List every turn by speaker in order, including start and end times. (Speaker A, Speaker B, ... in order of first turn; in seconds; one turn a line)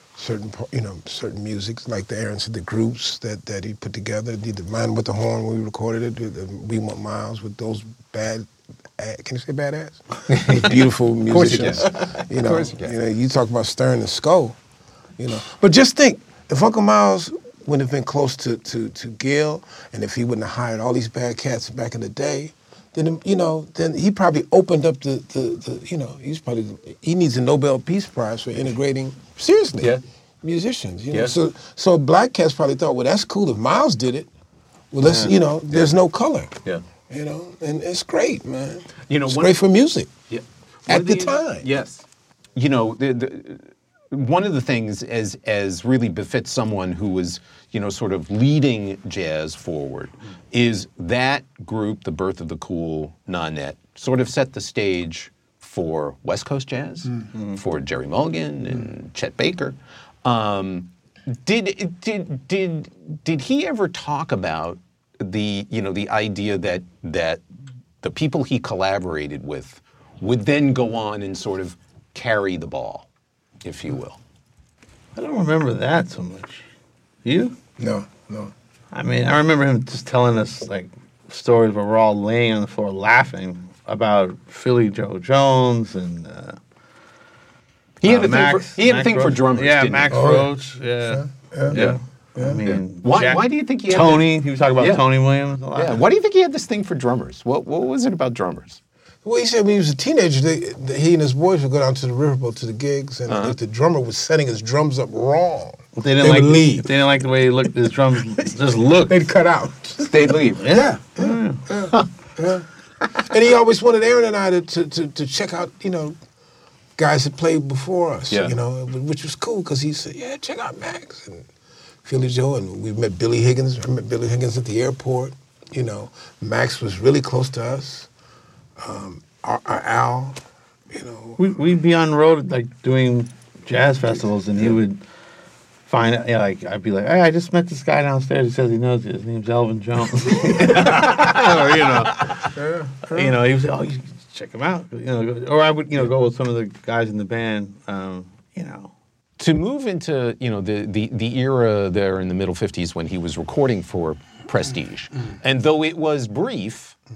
Speaker A: 0.2-14.6
Speaker B: 10.3-12.9
Speaker A: 15.2-34.3
Speaker B: 31.1-31.4
Speaker A: 34.9-36.5
Speaker B: 35.0-35.9
Speaker A: 37.1-40.1
Speaker B: 39.0-39.6
Speaker B: 40.3-42.0
Speaker A: 40.9-41.6
Speaker B: 42.5-67.4
Speaker B: 68.0-73.1
Speaker B: 73.6-74.2
Speaker C: 75.2-76.7
Speaker C: 77.2-77.5
Speaker A: 77.8-78.5
Speaker C: 78.9-86.6
Speaker B: 88.0-90.2
Speaker C: 88.0-96.0
Speaker A: 90.1-90.5
Speaker A: 91.0-92.6
Speaker B: 91.7-92.0
Speaker B: 92.6-94.3
Speaker B: 94.8-95.0
Speaker B: 95.7-98.8
Speaker A: 99.2-107.0
Speaker B: 103.3-103.5
Speaker C: 106.0-109.2
Speaker A: 108.9-116.2
Speaker B: 110.0-110.8
Speaker C: 110.5-112.1
Speaker A: 117.0-121.5
Speaker B: 118.3-118.5
Speaker A: 122.0-128.1
Speaker A: 128.8-131.4
Speaker C: 131.4-135.0
Speaker C: 135.9-142.6
Speaker A: 140.6-141.3
Speaker A: 142.5-143.3
Speaker C: 143.1-148.9
Speaker B: 149.4-157.0